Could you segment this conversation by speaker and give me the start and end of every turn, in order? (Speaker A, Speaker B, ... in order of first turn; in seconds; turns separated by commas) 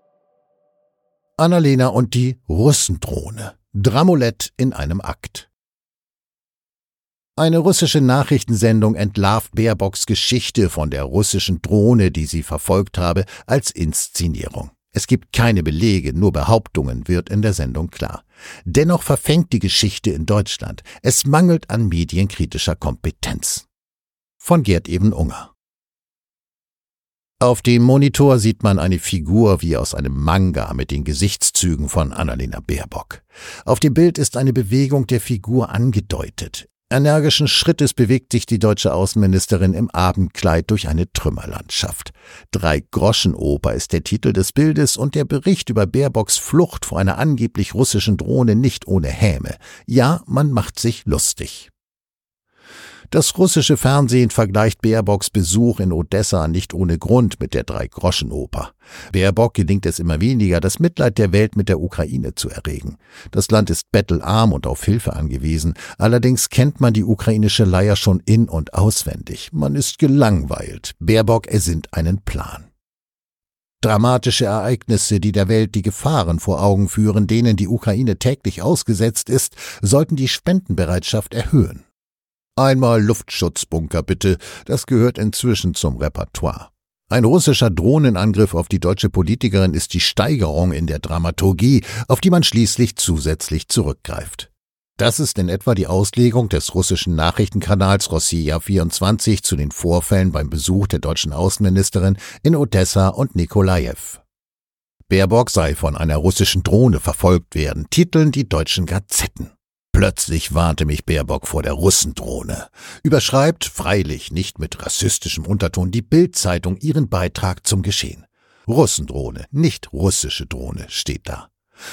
Speaker A: 1.4-5.5, Speaker A: 7.4-23.7, Speaker A: 24.4-25.5, Speaker A: 27.4-51.7, Speaker A: 53.1-72.7, Speaker A: 73.8-81.8, Speaker A: 82.6-104.2, Speaker A: 105.1-121.5